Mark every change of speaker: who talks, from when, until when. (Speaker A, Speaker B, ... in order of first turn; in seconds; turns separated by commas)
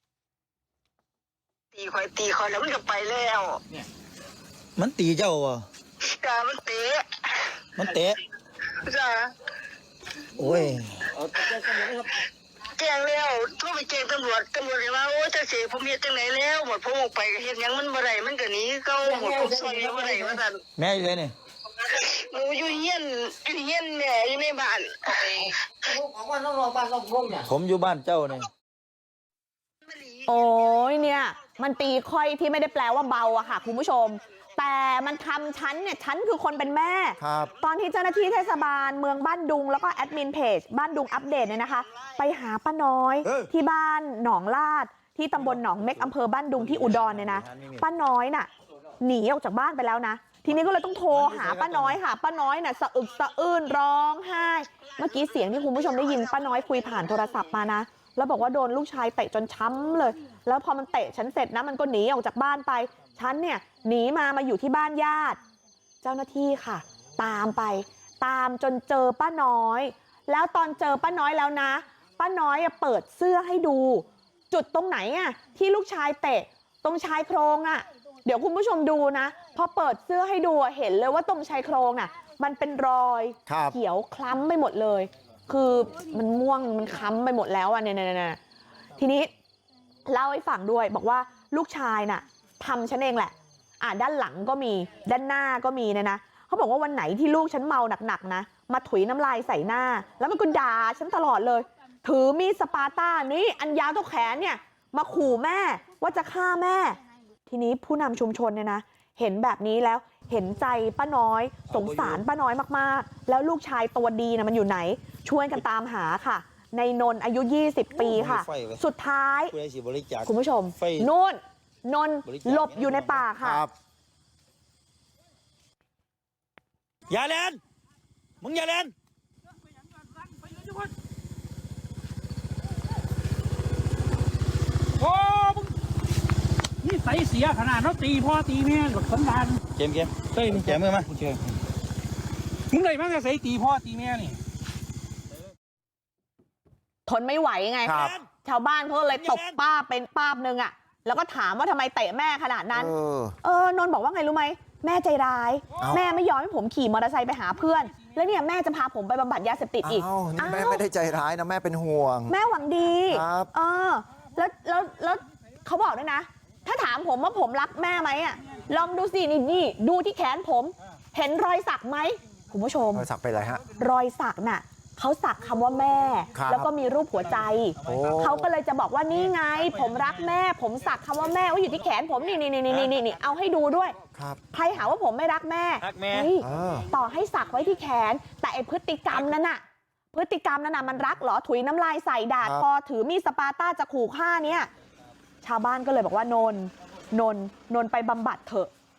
Speaker A: 1.7-3.6, Speaker B: 4.8-5.7, Speaker A: 6.0-7.6, Speaker B: 7.8-8.2, Speaker A: 8.8-9.3, Speaker B: 10.4-11.9, Speaker A: 11.7-12.0, Speaker A: 12.7-20.6, Speaker B: 20.8-21.3, Speaker A: 21.8-25.5, Speaker B: 27.4-28.5, Speaker A: 29.9-30.2, Speaker C: 30.2-48.5, Speaker D: 37.2-37.5, Speaker B: 43.2-43.5, Speaker B: 45.4-47.8, Speaker C: 49.0-65.4, Speaker B: 51.1-52.0, Speaker A: 56.0-57.0, Speaker C: 66.0-88.4, Speaker D: 83.5-83.8, Speaker C: 89.0-89.3, Speaker C: 90.1-119.5, Speaker B: 111.7-112.2, Speaker B: 117.9-118.8, Speaker B: 119.5-121.1, Speaker C: 120.2-123.7, Speaker B: 122.2-123.2, Speaker D: 123.4-123.7, Speaker B: 127.1-127.6, Speaker B: 128.4-128.9, Speaker E: 130.3-130.9, Speaker E: 135.0-135.7, Speaker E: 136.8-139.6, Speaker B: 139.8-141.1, Speaker E: 140.3-141.6, Speaker E: 142.7-144.4, Speaker C: 147.1-160.8, Speaker D: 147.8-148.2, Speaker B: 147.9-148.3, Speaker B: 149.1-149.6, Speaker D: 152.7-153.4, Speaker D: 155.8-156.0, Speaker D: 159.8-162.3, Speaker C: 162.3-173.1, Speaker D: 163.1-163.5, Speaker D: 172.9-173.6, Speaker C: 173.7-184.0, Speaker D: 176.3-176.7, Speaker B: 177.8-178.3, Speaker D: 177.8-178.5, Speaker B: 182.7-182.9, Speaker D: 184.1-184.4, Speaker C: 184.5-189.6, Speaker B: 185.8-186.3, Speaker D: 186.4-186.9, Speaker C: 190.1-194.7, Speaker D: 192.4-192.7, Speaker C: 195.4-198.7